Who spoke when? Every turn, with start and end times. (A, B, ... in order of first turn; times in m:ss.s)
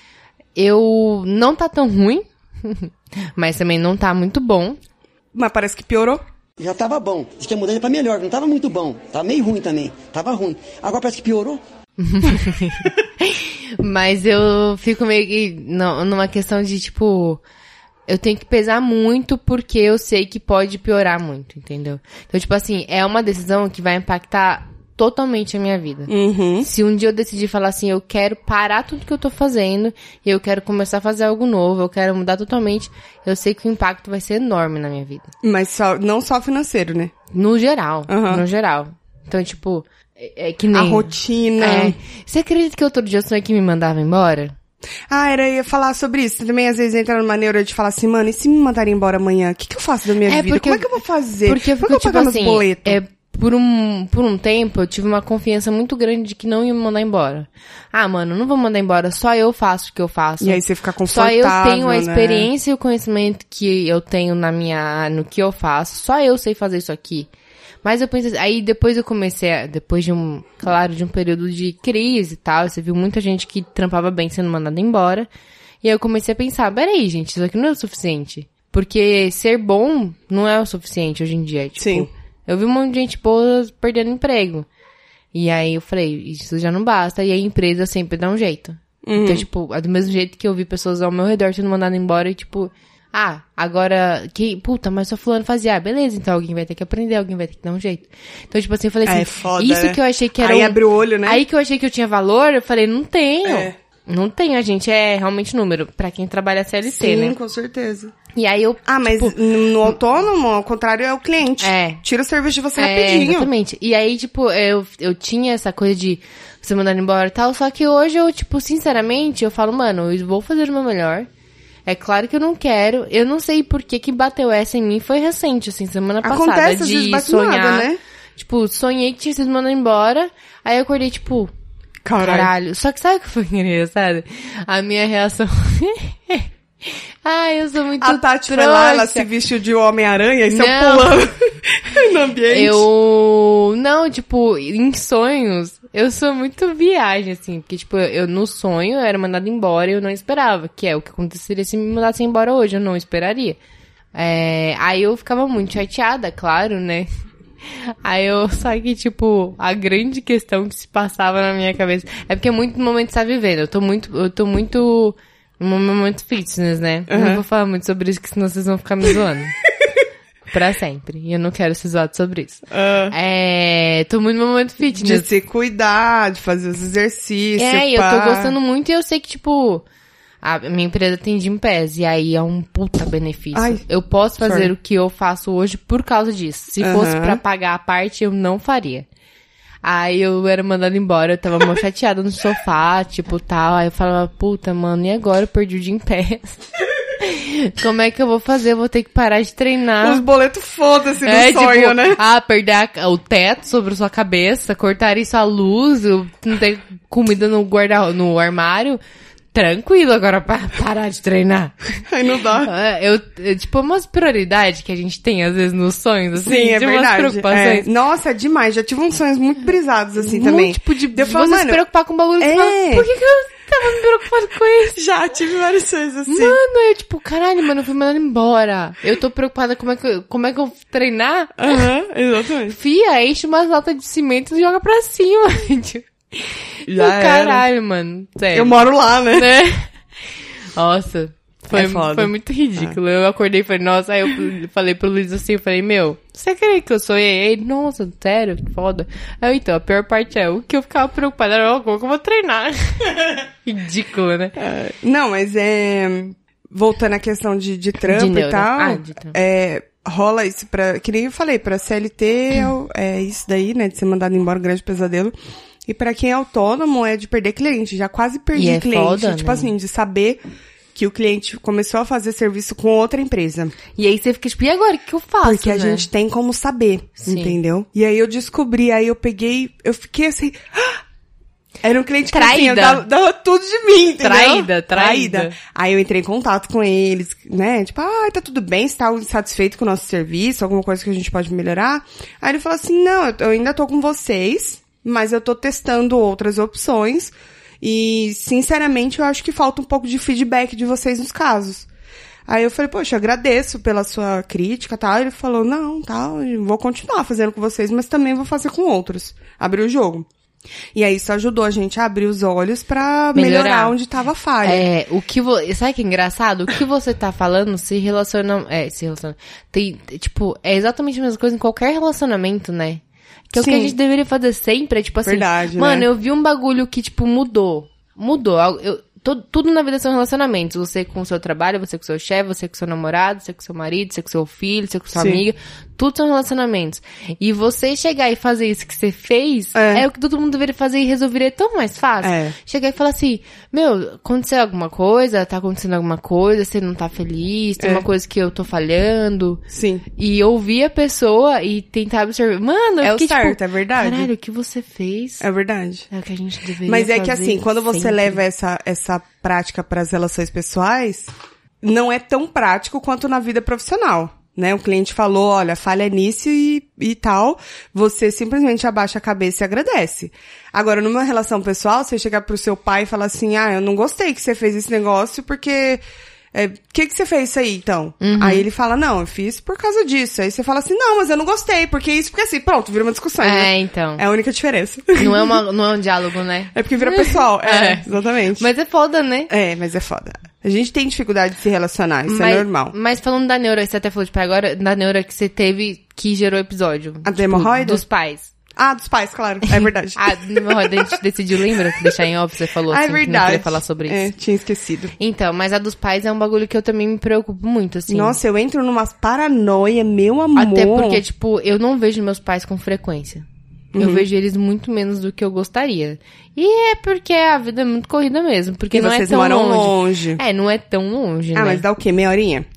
0:00.5-0:04.8 A
0:05.3-0:06.2 B
0:06.6-0:11.6 C
0:12.0-0:17.4 A
0:18.1-0:35.3 A
0:26.1-0:26.7 B
0:35.4-0:37.1 B
0:37.3-0:44.5 A
0:38.1-0:38.4 B
0:40.7-0:42.0 B
0:45.1-0:53.0 B
0:50.2-1:07.3 A
1:00.4-1:02.5 B
1:07.8-1:15.3 A
1:15.8-1:24.7 A
1:21.8-1:22.1 B
1:25.3-1:47.4 A
1:29.0-1:29.4 B
1:39.0-1:41.4 B
1:43.4-1:43.7 B
1:47.0-1:48.1 B
1:48.3-1:49.4 A
1:48.8-1:53.5 B
1:51.6-1:52.0 A
1:52.8-2:01.3 A
2:01.8-2:11.5 A
2:06.2-2:08.0 B
2:12.0-2:12.5 B
2:12.2-2:19.3 A
2:18.0-2:22.8 B
2:20.5-2:21.1 A
2:22.5-2:33.6 A
2:34.1-2:37.1 A
2:37.6-2:49.6 A
2:47.1-2:47.4 B
2:50.5-2:55.3 A
2:52.7-2:53.1 B
2:54.9-2:58.5 B
2:57.6-2:59.8 A
3:00.4-3:09.0 A
3:03.5-3:03.8 B
3:04.4-3:04.7 B
3:06.8-3:07.4 B
3:09.8-3:16.6 A
3:17.2-3:20.2 A
3:20.0-3:22.2 B
3:21.2-3:29.0 A
3:29.5-3:32.0 A
3:32.1-3:32.7 B
3:32.6-3:37.9 A
3:36.4-3:41.8 B
3:40.2-3:45.0 A
3:42.4-3:43.1 B
3:45.0-3:46.6 B
3:46.3-3:51.8 A
3:51.6-3:52.8 B
3:52.7-3:59.9 A
3:56.9-3:57.6 B
3:58.5-3:59.5 B
4:00.8-4:14.6 A
4:01.7-4:03.0 B
4:14.6-4:25.3 B
4:18.0-4:19.3 A
4:25.8-4:30.4 B
4:28.5-4:29.7 A
4:30.9-4:33.8 B
4:34.0-4:36.1 A
4:35.4-4:41.0 B
4:37.2-4:37.6 A
4:41.8-5:01.9 B
4:42.3-4:43.0 A
4:44.2-4:45.6 A
5:02.5-5:10.3 B
5:10.9-5:14.8 B
5:13.3-5:13.9 A
5:14.6-5:49.6 A
5:23.6-5:24.0 B
5:25.2-5:26.1 B
5:35.1-5:35.4 B
5:39.7-5:40.0 B
5:42.2-5:42.5 B
5:47.8-5:48.0 B
5:49.7-5:50.0 B
5:50.2-5:55.4 A
5:53.0-5:54.3 B
5:55.4-5:56.1 B
5:56.1-5:58.4 A
5:56.8-6:16.0 B
6:16.5-6:25.6 B
6:18.2-6:18.6 A
6:23.4-6:24.2 A
6:25.2-6:29.5 A
6:26.7-6:28.6 B
6:29.5-6:32.9 B
6:32.3-6:38.5 A
6:37.2-6:38.0 B
6:38.8-6:41.2 B
6:39.7-6:44.3 A
6:42.9-6:45.1 B
6:45.2-6:48.4 A
6:48.1-6:51.2 B
6:50.6-7:01.8 A
6:53.9-6:54.2 B
6:58.9-7:00.4 B
7:01.5-7:02.6 B